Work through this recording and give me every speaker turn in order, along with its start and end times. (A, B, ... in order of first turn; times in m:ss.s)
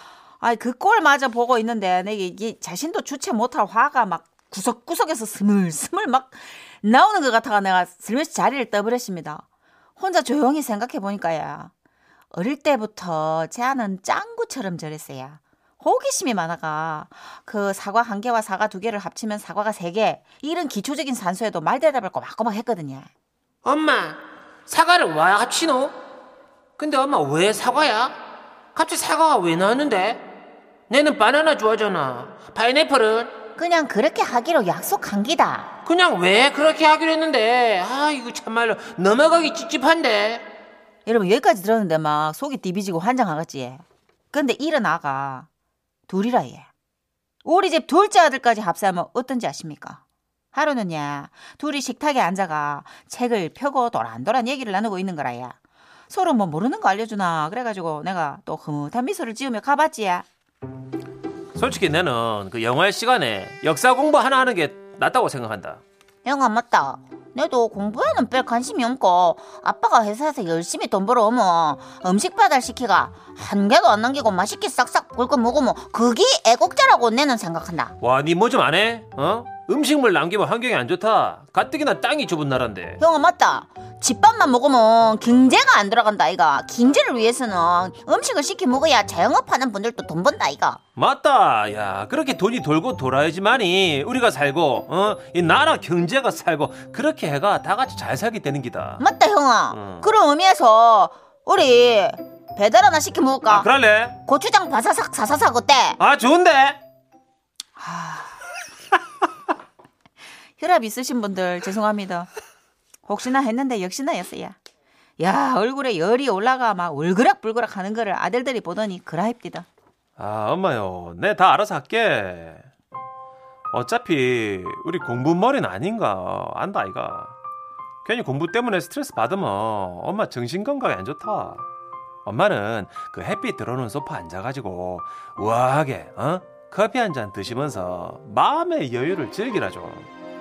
0:00.4-0:09.4 A
0:10.0-0:11.7 A
0:12.3-0:23.1 A
0:23.6-0:24.2 B
0:24.7-0:25.9 B
0:26.8-0:28.1 B
0:28.7-0:30.2 B
0:30.9-0:33.3 B
0:33.6-0:35.7 A
0:35.8-0:40.4 B
0:41.0-0:45.5 A
0:46.1-0:46.7 A
0:47.4-0:50.0 A
0:50.5-0:55.6 A
0:56.1-1:00.2 A
1:01.5-1:05.8 C
1:06.2-1:17.9 A
1:18.0-1:23.0 C
1:23.0-1:30.8 A
1:31.0-1:39.0 C
1:39.0-1:43.7 A
1:39.7-1:40.1 C
1:43.5-1:44.2 C
1:44.2-1:46.0 A
1:46.0-1:46.8 C
1:47.8-1:48.4 A
1:50.6-1:52.3 A
1:53.0-1:54.6 A
1:55.2-1:59.7 A
2:00.2-2:02.7 C
2:03.7-2:07.4 C
2:08.0-2:11.6 C
2:12.2-2:20.1 C